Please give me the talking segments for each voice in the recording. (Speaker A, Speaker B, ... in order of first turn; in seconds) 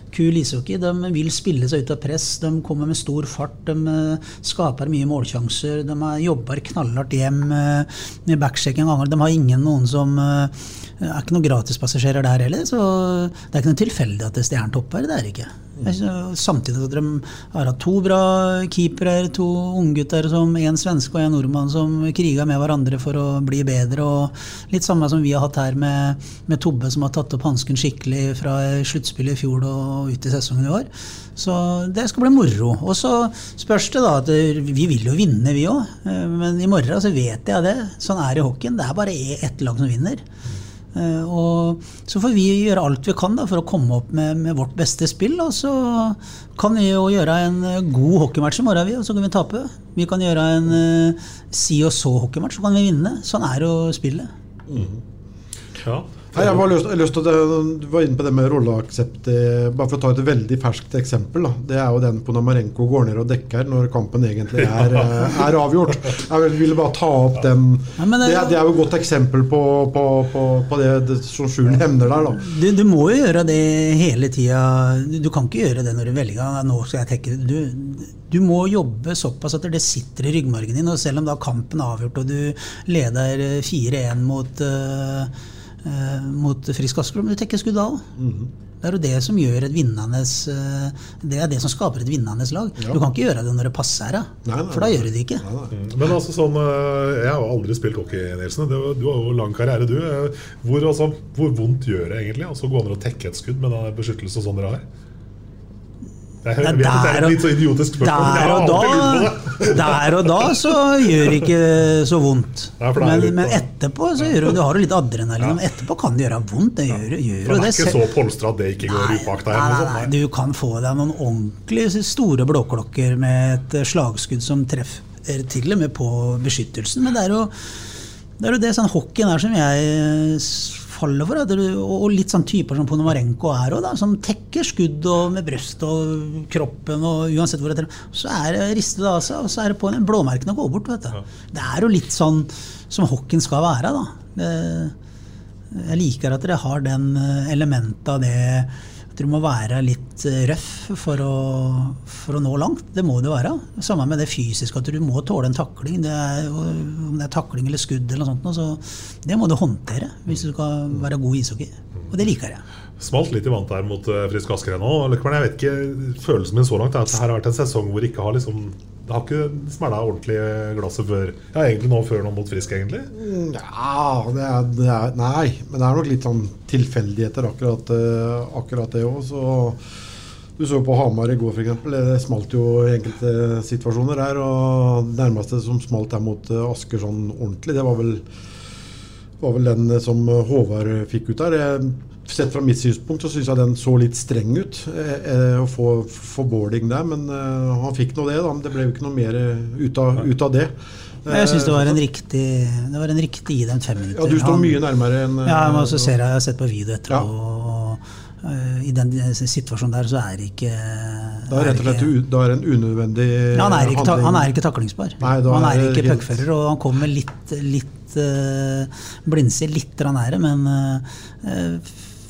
Speaker A: 0.1-40.2, 40.9-54.3, 68.0-68.6, 72.4-88.0, 88.8-95.4, 106.6-118.0, 118.9-127.8, 128.4-144.9, 145.7-162.6, 201.3-204.8, 205.4-212.1, 213.5-222.0
Speaker B: 54.7-55.0, 56.3-72.4, 88.2-88.5, 94.4-95.7, 173.1-179.8, 180.6-188.2, 189.4-202.0, 204.1-206.1, 211.5-214.5, 215.2-216.4
Speaker C: 55.8-56.6, 64.7-65.2, 95.7-104.8, 106.4-110.7, 111.2-111.5, 112.8-113.7, 114.2-114.5, 117.4-120.1, 163.0-173.1